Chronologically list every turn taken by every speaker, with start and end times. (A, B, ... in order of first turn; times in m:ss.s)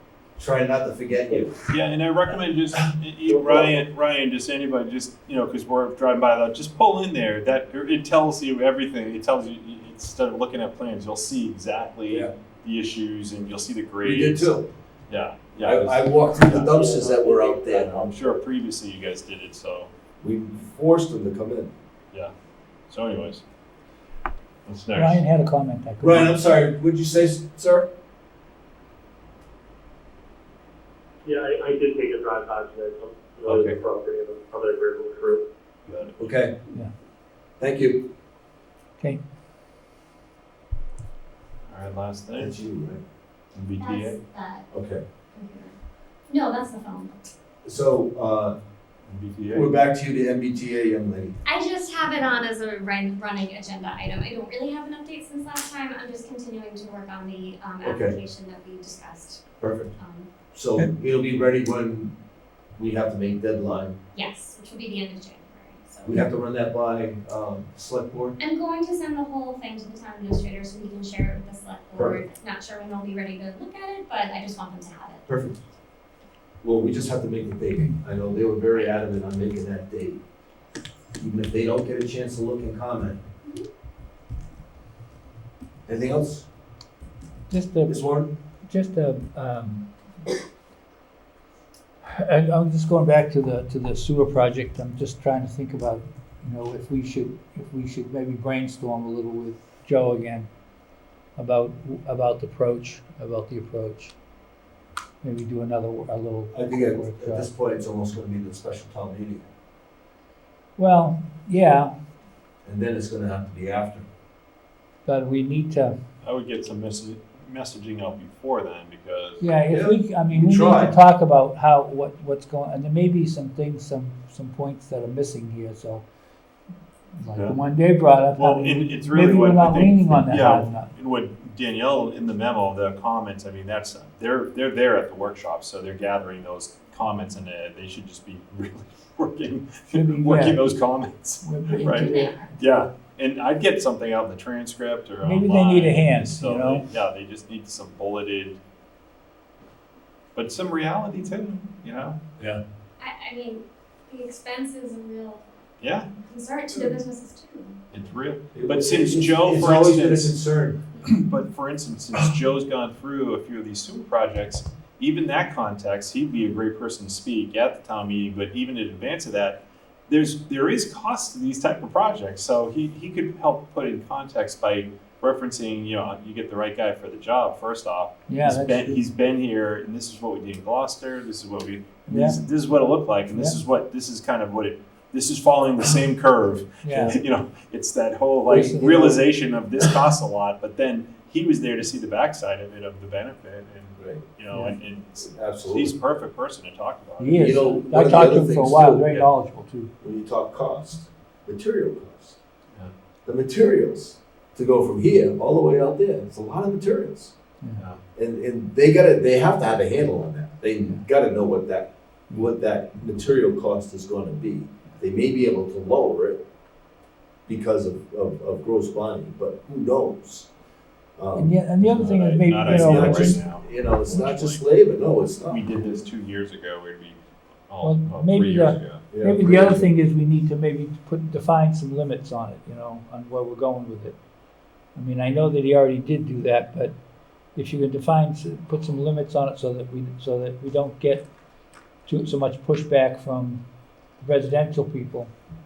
0:00.4-0:01.5 A
0:01.7-0:14.5 B
0:14.0-0:14.7 A
0:15.1-0:16.8 B
0:15.6-0:18.1 A
0:16.6-0:17.7 C
0:17.6-0:19.9 B
0:20.2-0:21.7 A
0:22.9-0:23.4 B
0:24.7-0:25.2 B
0:24.9-0:26.4 D
0:26.0-0:27.9 A
0:31.2-0:35.5 C
0:33.5-0:33.8 B
0:35.9-0:36.2 B
0:36.2-0:36.6 A
0:37.6-0:38.1 A
0:41.7-0:42.6 B
0:42.4-0:43.0 A
0:43.5-0:44.2 B
0:43.8-0:44.7 E
0:44.7-0:45.0 A
0:45.3-0:45.7 E
0:46.3-0:47.1 E
0:47.6-0:48.6 A
0:49.1-0:49.7 B
0:49.5-0:51.4 A
0:51.5-0:59.4 E
0:57.8-0:58.2 A
0:59.6-0:59.9 A
1:00.0-1:00.3 E
1:00.5-1:02.1 A
1:02.8-1:04.0 A
1:04.2-1:06.2 E
1:06.1-1:08.4 A
1:08.4-1:15.2 E
1:12.0-1:12.2 A
1:15.3-1:15.6 A
1:16.6-1:20.2 A
1:21.2-1:23.2 A
1:25.9-1:26.5 A
1:27.5-1:28.0 D
1:27.9-1:28.3 A
1:28.7-1:29.9 D
1:32.1-1:40.5 D
1:41.4-1:44.2 D
1:45.2-1:47.5 D
1:46.5-1:49.5 A
1:50.8-1:51.9 D
1:52.6-1:54.1 A
1:55.1-1:56.0 D
1:56.2-1:59.5 B
1:59.4-2:06.1 D
1:59.7-2:00.9 A
2:07.2-2:10.9 D
2:08.4-2:28.6 B
2:19.9-2:20.8 D
2:21.4-2:22.8 D
2:21.7-2:22.4 E
2:25.2-2:26.9 D
2:30.4-2:32.2 B
2:33.0-2:35.4 E
2:35.8-2:36.1 B
2:36.3-2:37.7 E
2:37.9-2:40.3 B
2:38.5-2:40.8 A
2:41.1-3:17.6 B
2:58.3-2:59.0 D
3:02.1-3:02.4 D
3:06.8-3:07.2 D
3:08.5-3:09.2 A
3:08.5-3:09.1 D
3:14.5-3:14.8 D
3:15.2-3:15.9 A
3:17.2-3:19.9 D
3:17.4-3:19.1 A
3:20.0-3:22.4 A
3:23.3-3:27.3 A
3:28.2-3:36.4 A
3:37.5-3:40.5 A
3:41.2-3:41.6 A
3:41.4-3:43.4 D
3:41.8-3:44.6 B
3:42.6-3:45.7 A
3:45.5-3:49.1 B
3:47.8-3:54.2 D
3:49.1-3:49.8 A
3:55.0-3:57.0 D
3:57.6-4:01.3 D
4:02.1-4:03.6 D
4:04.2-4:05.3 D